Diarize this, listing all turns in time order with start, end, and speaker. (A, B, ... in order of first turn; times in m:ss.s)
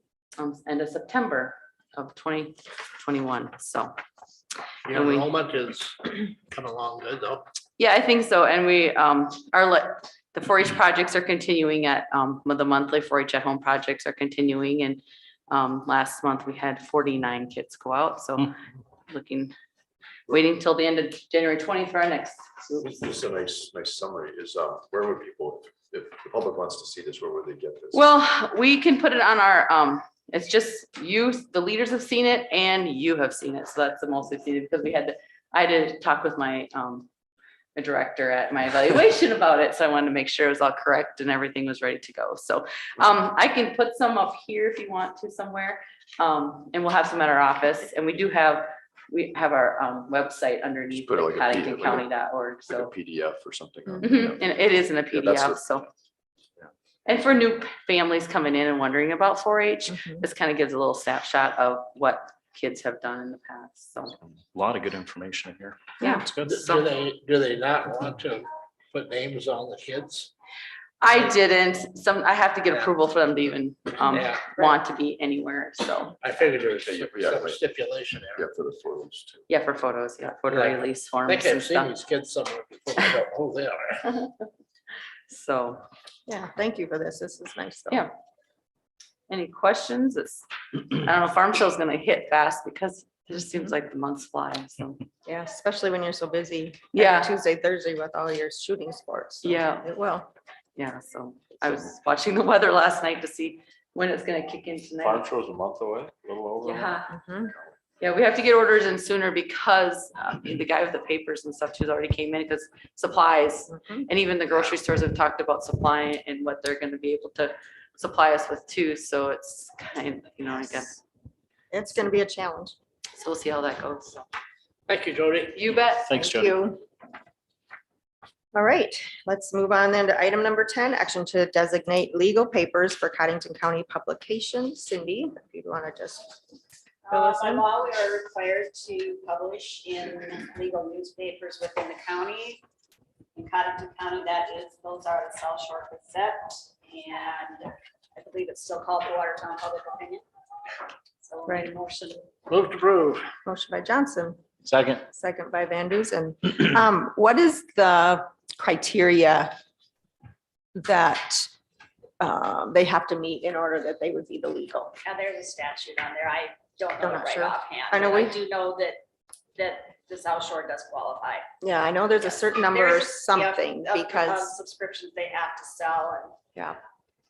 0:00.4-0:03.9 A
0:04.9-0:07.4 B
0:04.9-0:05.3 A
0:07.8-0:18.5 A
0:19.1-0:19.5 A
0:20.3-0:23.0 A
0:22.8-0:28.0 C
0:27.9-0:37.1 A
0:37.7-0:52.9 A
0:50.9-0:52.1 C
0:52.7-0:55.8 C
0:54.0-0:55.8 A
0:57.0-1:04.2 A
1:04.5-1:06.8 D
1:06.0-1:06.2 E
1:06.0-1:06.8 A
1:06.4-1:10.3 B
1:11.0-1:16.2 A
1:14.0-1:14.6 B
1:16.2-1:18.4 B
1:16.6-1:17.6 C
1:18.3-1:19.4 C
1:19.5-1:22.0 A
1:20.5-1:24.1 B
1:25.3-1:25.8 A
1:26.3-1:28.1 E
1:29.3-1:35.0 A
1:35.2-1:40.3 E
1:36.9-1:37.3 A
1:39.4-1:39.9 A
1:40.8-1:45.3 A
1:45.0-1:46.8 C
1:46.6-1:47.1 A
1:47.1-1:47.5 E
1:48.0-2:01.0 A
1:53.7-1:54.1 E
2:01.7-2:02.7 E
2:03.1-2:04.2 A
2:04.9-2:05.6 B
2:05.5-2:06.1 A
2:06.1-2:06.6 D
2:06.1-2:06.8 E
2:08.5-2:16.4 E
2:17.0-2:22.6 F
2:17.1-2:17.6 E
2:23.4-2:30.2 F
2:31.2-2:32.3 F
2:32.5-2:33.2 B
2:33.4-2:34.4 E
2:34.6-2:35.0 D
2:35.0-2:39.5 E
2:40.7-2:41.5 E
2:42.2-2:44.9 E
2:45.0-2:49.0 F
2:47.0-2:48.4 E
2:49.6-2:51.5 F
2:51.6-2:54.5 E
2:52.2-2:56.4 F